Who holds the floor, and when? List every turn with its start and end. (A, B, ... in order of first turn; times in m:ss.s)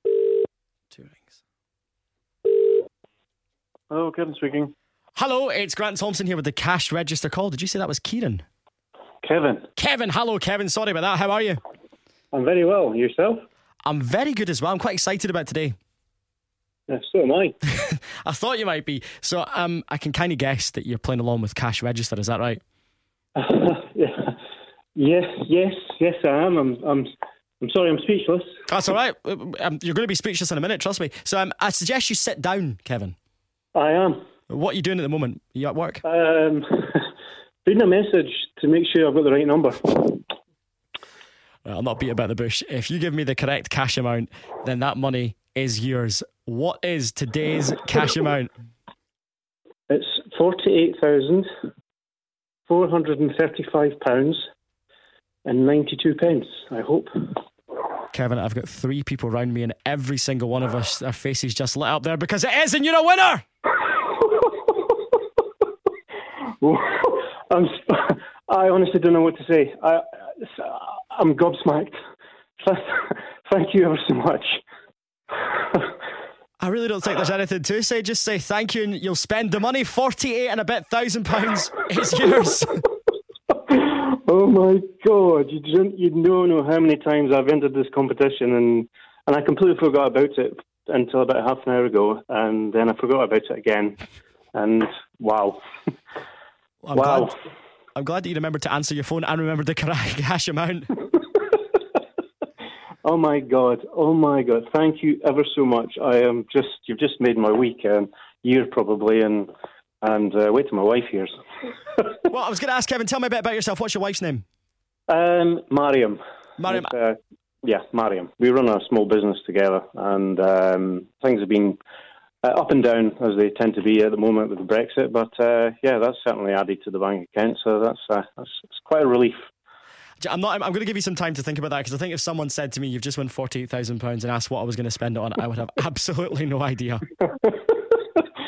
0:00.9-0:01.3 A
0:03.9-0:04.7 B
0:05.2-0:08.4 A
0:09.2-0:09.7 B
0:09.8-0:11.6 A
0:12.3-0:13.4 B
0:13.8-0:15.7 A
0:16.9-0:17.6 B
0:17.7-0:22.6 A
0:23.4-0:24.4 B
0:25.0-0:27.1 B
0:27.6-0:28.6 B
0:28.7-0:33.1 A
0:33.7-0:34.2 B
0:34.5-0:36.0 A
0:36.0-0:37.1 B
0:37.6-0:40.2 B
0:41.6-0:48.5 A
0:49.9-0:51.5 B
0:52.7-0:54.4 B
0:55.4-0:57.4 B
0:58.1-1:03.4 A
1:03.8-1:05.0 B
1:06.6-1:12.0 B
1:12.6-1:14.6 B
1:15.5-1:15.9 B
1:16.6-1:22.8 A
1:23.5-1:34.0 B
1:34.5-1:35.6 B
1:36.8-1:37.3 A
1:36.9-1:37.3 B
1:37.9-1:40.9 A
1:43.0-1:49.5 B
1:50.0-1:51.3 B
1:52.3-1:54.4 A
1:55.1-2:01.8 B
1:56.6-1:56.9 A
2:02.4-2:09.3 B
2:10.2-2:17.0 A
2:17.4-2:18.2 B